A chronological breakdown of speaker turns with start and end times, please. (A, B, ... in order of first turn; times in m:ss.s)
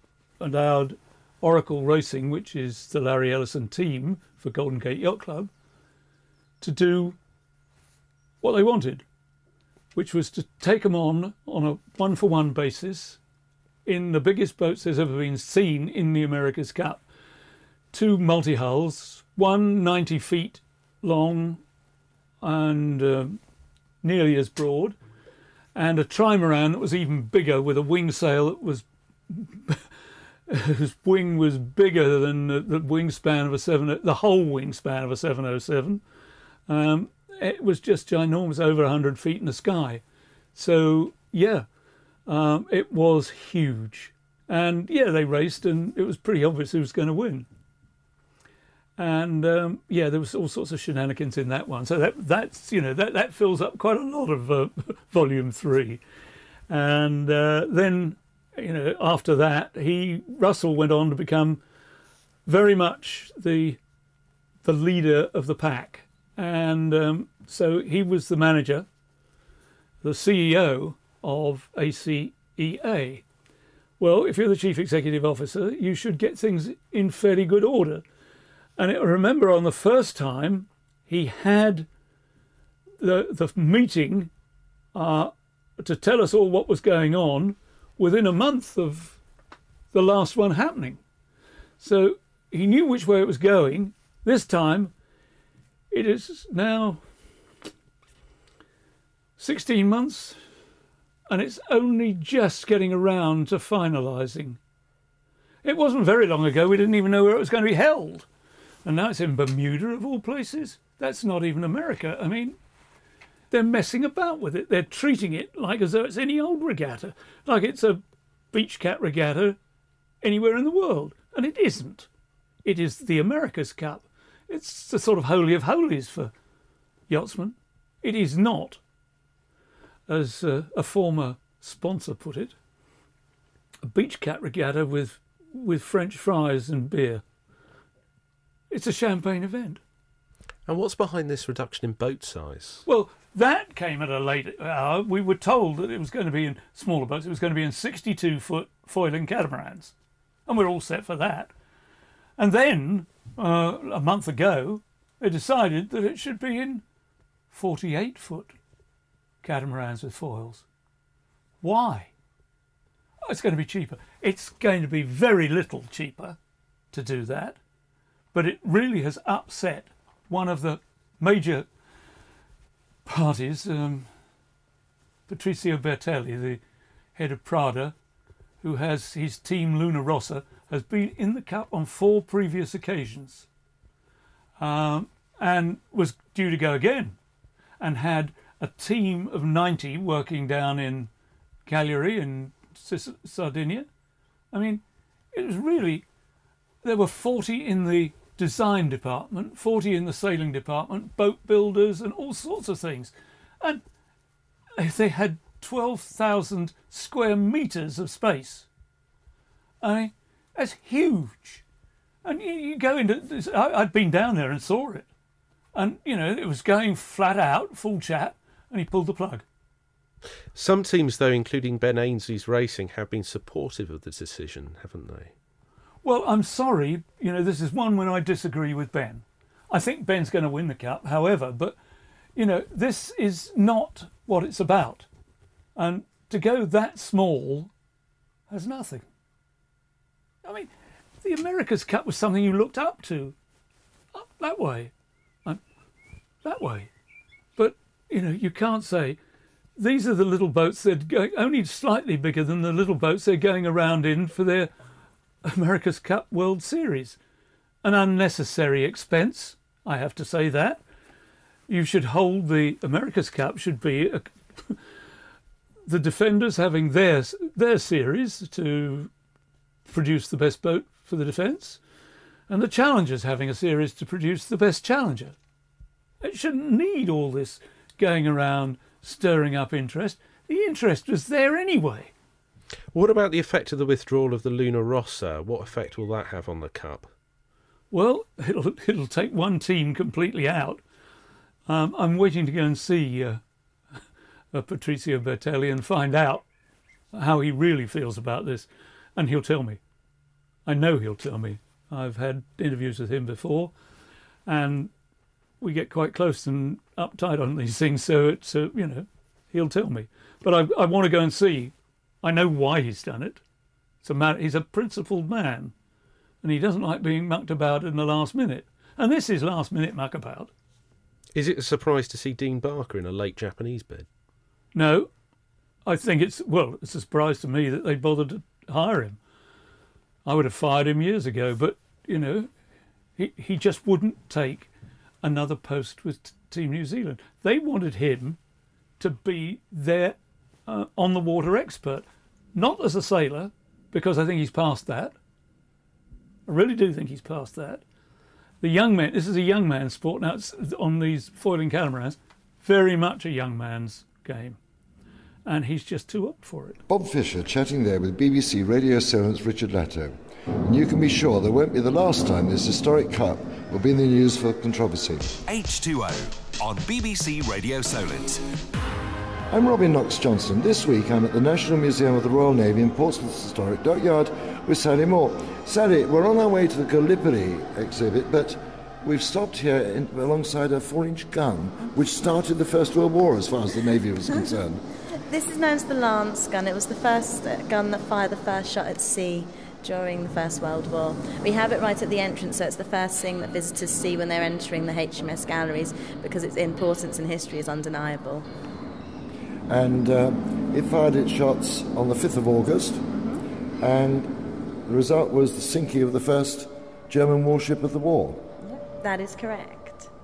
0:00.4-0:05.5 A
0:06.6-0:07.2 A
0:08.4-0:09.0 A
0:09.9-0:13.2 A
0:13.8-0:17.0 A
0:17.9-0:21.6 A
0:22.4-0:23.4 A
0:24.0-0:25.0 A
0:25.7-0:29.8 A
0:30.5-0:36.0 A
0:36.7-0:40.0 A
0:40.5-0:41.7 A
0:42.3-0:47.5 A
0:49.0-0:56.0 A
0:56.7-1:01.6 A
1:02.4-1:03.8 A
1:04.6-1:08.9 A
1:10.0-1:13.2 A
1:14.0-1:18.0 A
1:18.8-1:21.9 A
1:23.0-1:24.3 A
1:24.9-1:29.2 A
1:29.9-1:31.0 A
1:31.8-1:34.9 A
1:35.9-1:37.0 A
1:39.4-1:40.4 A
1:41.3-1:44.6 A
1:45.6-1:48.3 A
1:48.8-1:52.6 A
1:53.5-1:59.6 A
2:00.2-2:02.1 A
2:02.6-2:06.3 A
2:07.1-2:08.8 A
2:10.1-2:12.5 A
2:13.8-2:17.2 A
2:18.7-2:19.8 A
2:20.7-2:22.8 B
2:22.8-2:29.9 A
2:30.5-2:31.5 A
2:32.4-2:36.8 A
2:37.5-2:38.5 A
2:39.4-2:40.6 A
2:41.6-2:42.1 A
2:43.3-2:46.4 A
2:46.9-2:47.6 A
2:48.3-2:51.7 A
2:53.0-2:54.1 A
2:55.3-2:56.6 A
2:57.1-2:57.9 A
2:58.6-3:03.4 A
3:04.6-3:07.2 A
3:07.8-3:11.1 A
3:11.6-3:13.9 A
3:14.5-3:16.0 A
3:16.8-3:23.8 A
3:24.8-3:28.6 A
3:29.8-3:31.6 A
3:32.2-3:35.1 A
3:35.7-3:39.4 A
3:40.5-3:45.3 B
3:46.0-3:51.8 A
3:52.3-3:55.1 A
3:55.8-3:57.7 A
3:58.5-3:59.0 A
4:00.4-4:00.7 A
4:01.2-4:03.4 A
4:04.1-4:04.9 A
4:06.4-4:06.9 A
4:07.6-4:09.2 A
4:09.8-4:14.7 A
4:15.4-4:17.2 A
4:17.8-4:20.8 A
4:21.7-4:24.8 A
4:25.9-4:29.1 A
4:29.9-4:31.8 A
4:32.5-4:35.4 A
4:36.2-4:42.1 A
4:42.9-4:47.1 B
4:47.9-4:50.8 A
4:51.7-4:53.4 A
4:54.5-4:56.4 A
4:57.1-4:59.8 A
5:00.6-5:03.7 A
5:04.4-5:04.9 A
5:05.6-5:13.4 A
5:14.0-5:15.7 A
5:16.4-5:20.5 A
5:21.3-5:24.1 B
5:24.7-5:25.1 A
5:25.8-5:29.2 A
5:30.2-5:32.5 A
5:33.2-5:34.7 A
5:35.2-5:38.4 A
5:39.0-5:45.1 A
5:46.5-5:47.8 A
5:48.6-5:54.6 A
5:55.4-5:56.8 A
5:56.9-6:05.3 C
6:05.4-6:08.4 D
6:09.5-6:24.8 C
6:25.1-6:38.5 E
6:39.7-6:43.0 C
6:43.8-6:48.5 C
6:48.7-6:50.1 E